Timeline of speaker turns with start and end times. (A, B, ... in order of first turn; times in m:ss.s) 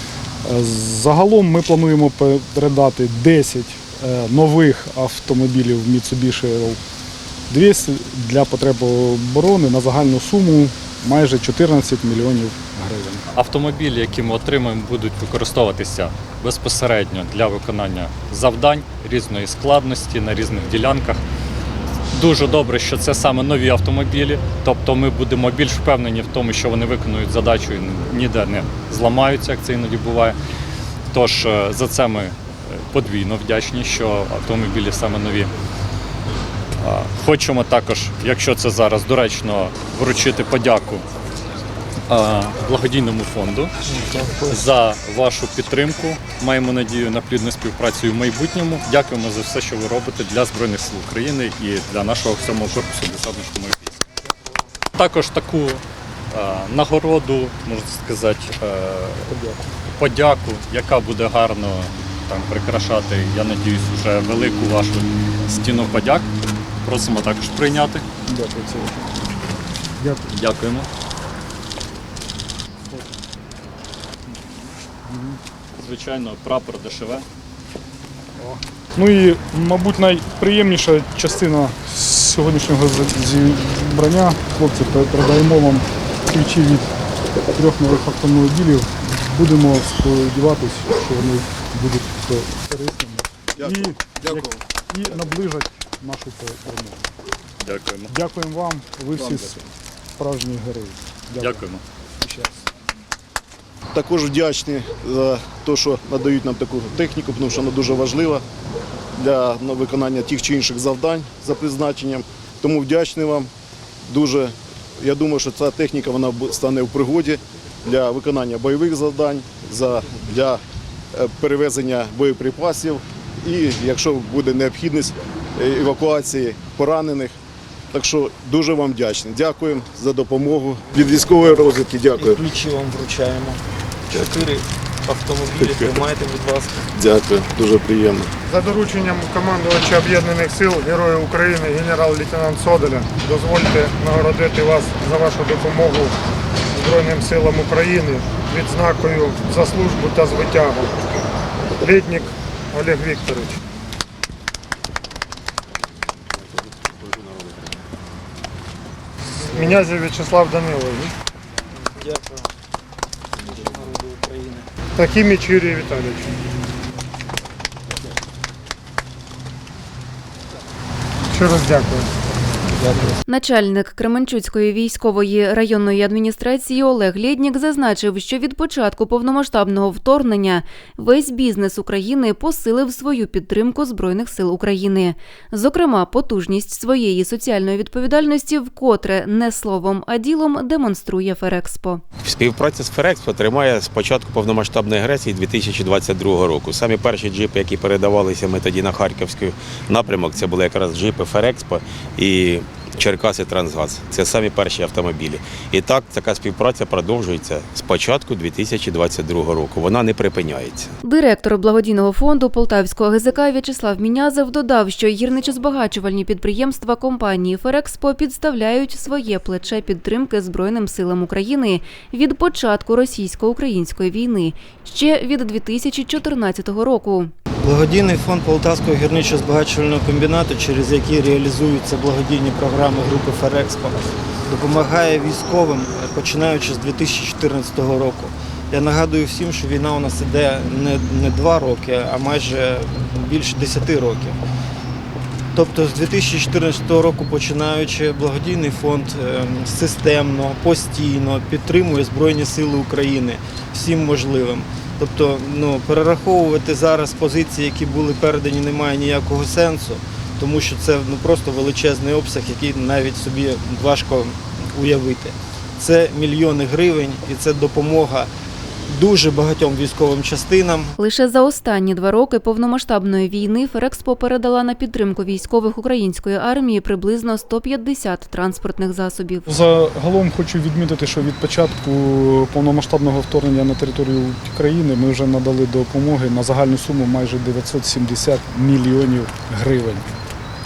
0:00.4-0:06.8 A
0:07.5-0:13.2 A
0:13.3-0:21.2 B
0:22.1-0:30.4 B
0:31.1-0:35.5 B
0:36.8-0:41.0 B
0:42.1-0:43.7 B
0:44.0-0:44.6 C
0:44.4-0:54.0 B
0:55.0-0:59.3 B
0:59.9-1:06.3 B
1:06.8-1:08.0 B
1:10.3-1:10.9 B
1:15.8-1:17.2 B
1:18.4-1:26.9 A
1:27.6-1:34.3 A
1:33.6-1:34.6 D
1:34.9-1:37.0 A
1:37.6-1:38.1 B
1:38.1-1:39.6 A
1:39.2-1:39.5 D
1:40.2-1:41.6 A
1:41.4-1:41.8 B
1:42.2-1:42.6 A
1:43.9-1:48.4 D
1:49.2-1:53.5 D
1:54.1-2:00.6 D
2:01.1-2:07.4 D
2:07.9-2:12.4 D
2:12.2-2:16.8 C
2:15.6-2:16.0 D
2:16.9-2:18.3 D
2:18.5-2:26.2 E
2:26.7-2:30.9 E
2:31.8-2:33.6 E
2:36.3-2:37.8 F
2:39.5-2:39.9 C
2:39.6-2:41.1 E
2:41.8-2:42.5 C
2:43.4-2:44.7 C
2:45.0-2:46.3 E
2:51.3-2:52.1 E
2:52.8-2:53.2 C
2:53.2-3:12.0 G
3:12.2-3:30.9 F
3:31.0-3:47.3 G
3:47.6-4:04.4 C
4:05.5-4:28.3 C
4:28.9-4:30.9 C
4:31.0-4:39.5 G
4:39.5-4:50.1 A